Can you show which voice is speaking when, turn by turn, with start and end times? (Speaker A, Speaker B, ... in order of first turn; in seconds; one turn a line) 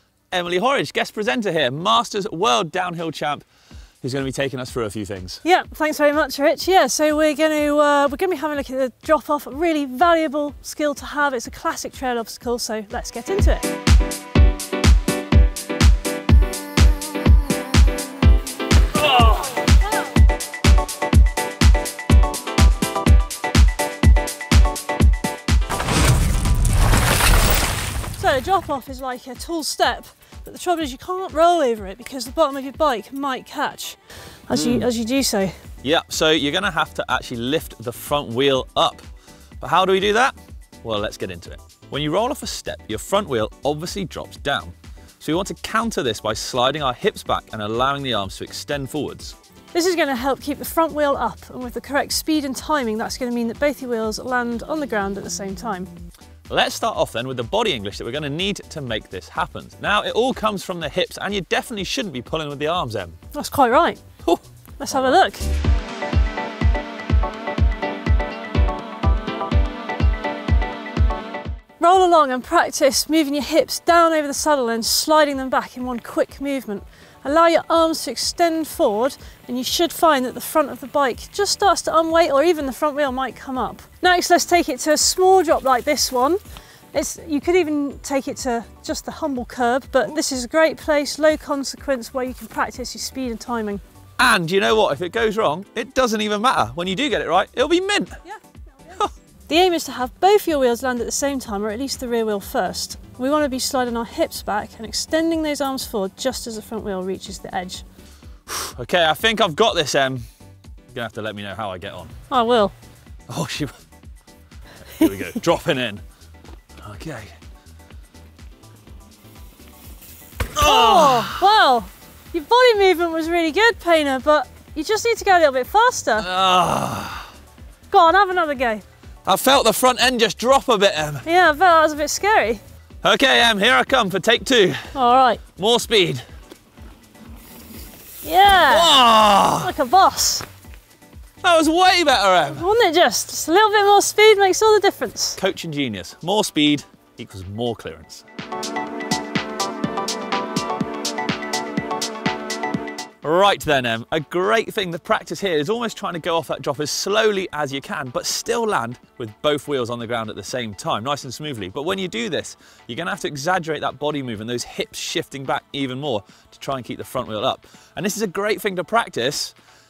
Speaker A: 0.3-3.5
Speaker A: 4.0-5.4
Speaker B: 5.4-13.7
Speaker B: 28.2-35.5
Speaker A: 34.5-34.9
Speaker A: 35.8-39.0
Speaker A: 39.6-49.4
Speaker B: 49.7-55.9
Speaker A: 56.5-63.2
Speaker B: 63.3-64.0
Speaker A: 64.3-65.2
Speaker B: 64.8-65.4
Speaker B: 71.8-86.4
Speaker B: 86.9-93.8
Speaker A: 94.2-98.2
Speaker B: 99.5-107.8
Speaker A: 108.5-110.2
Speaker A: 110.9-112.1
Speaker B: 112.3-112.7
Speaker A: 113.3-113.8
Speaker A: 114.9-116.0
Speaker A: 116.8-117.3
Speaker A: 120.5-121.4
Speaker B: 120.6-126.3
Speaker A: 126.2-127.3
Speaker B: 127.9-128.8
Speaker A: 129.3-131.2
Speaker B: 131.2-132.6
Speaker A: 133.0-134.9
Speaker B: 134.9-135.4
Speaker A: 135.6-136.2
Speaker B: 138.2-138.9
Speaker A: 138.7-139.7
Speaker B: 139.6-140.5
Speaker A: 141.4-142.7
Speaker B: 142.5-145.4
Speaker A: 145.4-148.2
Speaker A: 153.2-169.6